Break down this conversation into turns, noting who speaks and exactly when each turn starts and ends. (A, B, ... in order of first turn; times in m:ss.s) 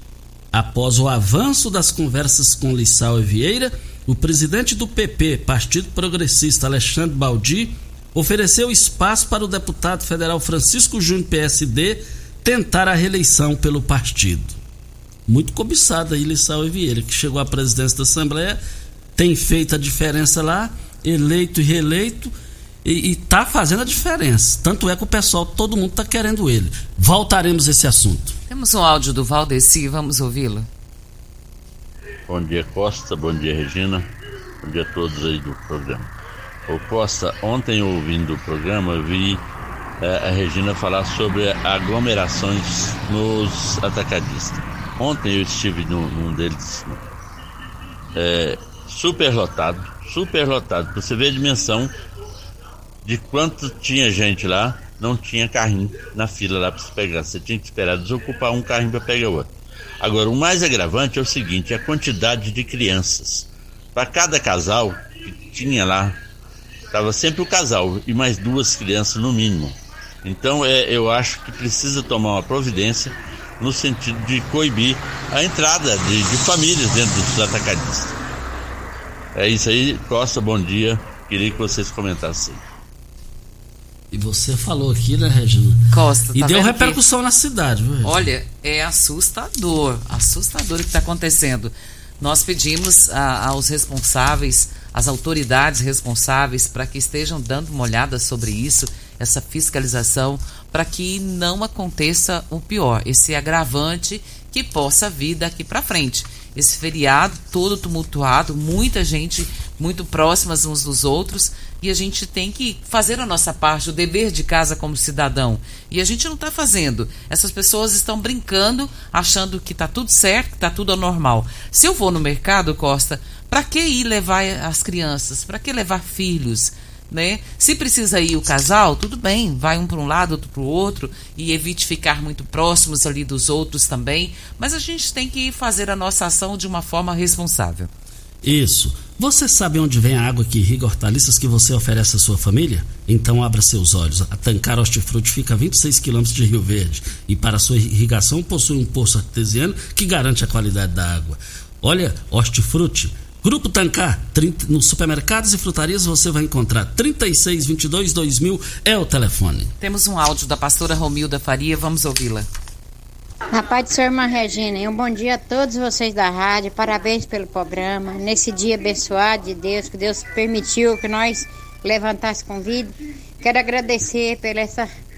0:00.5-0:14.6 A
0:15.3-0:18.6 A
0:19.2-0:22.3 A
0:22.8-0:28.4 A
0:28.5-0:30.7 B
0:32.3-0:34.0 C
0:34.6-0:36.1 C
0:36.7-0:39.4 C
0:40.0-0:47.1 C
0:48.2-0:51.9 C
0:53.0-1:06.2 C
1:06.9-1:18.2 C
1:19.4-1:22.6 C
1:24.1-1:28.3 A
1:25.9-1:27.0 B
1:28.0-2:17.9 B
2:18.4-2:39.7 A
2:39.8-2:42.5 B
2:43.5-2:54.9 D